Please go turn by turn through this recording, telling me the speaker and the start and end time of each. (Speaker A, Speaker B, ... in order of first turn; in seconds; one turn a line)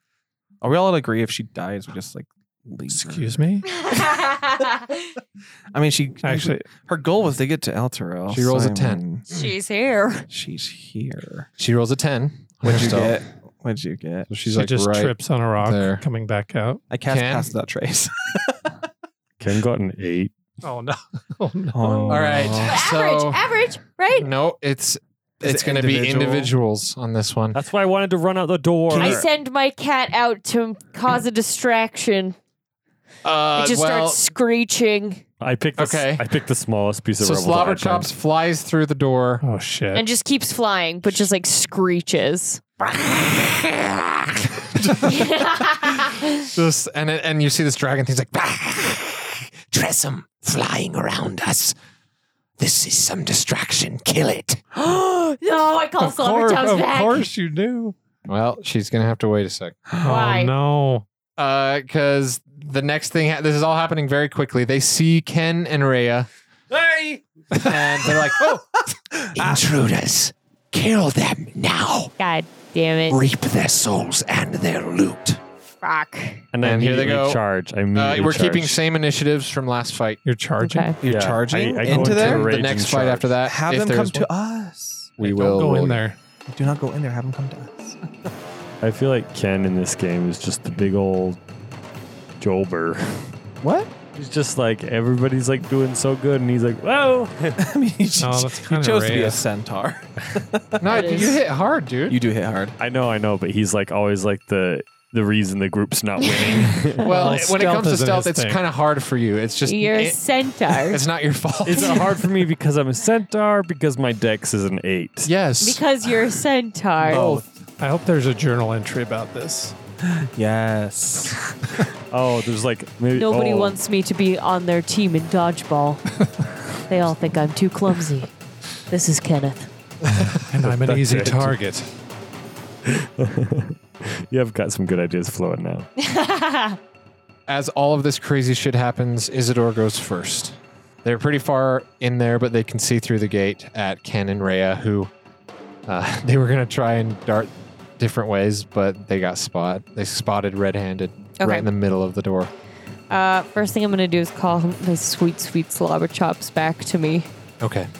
Speaker A: 0.6-3.4
Speaker B: 2.9-3.6
Speaker C: 3.8-4.9
Speaker A: 5.7-9.3
Speaker B: 6.2-6.7
Speaker D: 8.3-9.4
Speaker C: 9.3-10.3
Speaker A: 10.3-11.5
Speaker D: 11.6-13.2
Speaker A: 12.6-14.3
Speaker D: 14.3-16.0
Speaker B: 14.5-16.8
Speaker A: 16.9-18.8
Speaker D: 17.1-17.5
Speaker E: 19.4-20.3
Speaker B: 20.6-22.5
Speaker A: 21.7-22.7
Speaker D: 22.1-23.4
Speaker C: 22.6-24.3
Speaker D: 24.1-27.6
Speaker A: 25.4-26.5
Speaker E: 27.5-29.3
Speaker C: 29.0-32.4
Speaker D: 33.2-34.2
Speaker C: 33.5-35.2
Speaker E: 35.4-38.1
Speaker D: 35.8-36.3
Speaker D: 37.2-39.4
Speaker B: 39.4-40.0
Speaker C: 39.9-42.6
Speaker D: 42.8-51.7
Speaker C: 45.0-46.4
Speaker D: 52.6-54.6
Speaker C: 54.7-57.3
Speaker B: 56.0-57.9
Speaker D: 58.3-59.9
Speaker B: 60.0-61.0
Speaker C: 60.0-60.5
Speaker D: 61.4-68.6
Speaker A: 68.0-68.6
Speaker A: 69.1-69.6
Speaker D: 69.3-72.1
Speaker C: 72.2-73.2
Speaker D: 73.1-75.4
Speaker C: 75.8-76.5
Speaker E: 76.5-78.8
Speaker D: 76.6-77.4
Speaker D: 77.9-80.2
Speaker B: 80.2-81.0
Speaker C: 80.6-81.0
Speaker A: 81.0-82.5
Speaker E: 81.0-83.3
Speaker D: 81.9-84.3
Speaker A: 83.4-85.1
Speaker D: 85.2-86.0
Speaker B: 85.2-86.2
Speaker A: 86.5-88.0
Speaker E: 88.8-91.4
Speaker E: 92.4-93.3
Speaker A: 93.6-93.9
Speaker E: 94.1-97.6
Speaker A: 97.6-101.3
Speaker B: 98.2-99.4
Speaker D: 100.8-102.2
Speaker C: 100.8-101.3
Speaker A: 102.1-102.8
Speaker E: 102.8-107.2
Speaker C: 106.2-107.0
Speaker D: 107.0-112.2
Speaker B: 107.1-108.6
Speaker C: 109.6-111.0
Speaker E: 111.6-115.3
Speaker D: 115.2-116.4
Speaker C: 115.6-117.3
Speaker D: 117.1-117.4
Speaker A: 117.1-117.4
Speaker B: 117.8-119.7
Speaker A: 120.0-121.5
Speaker E: 122.1-123.8
Speaker C: 123.1-126.0
Speaker C: 126.9-128.3
Speaker C: 128.9-129.7
Speaker D: 130.0-130.4
Speaker B: 130.5-131.9
Speaker E: 130.6-131.6
Speaker E: 132.8-135.9
Speaker C: 136.0-136.8
Speaker D: 137.5-145.1
Speaker D: 145.9-152.5
Speaker C: 151.4-151.7
Speaker C: 153.1-157.3
Speaker D: 157.6-157.9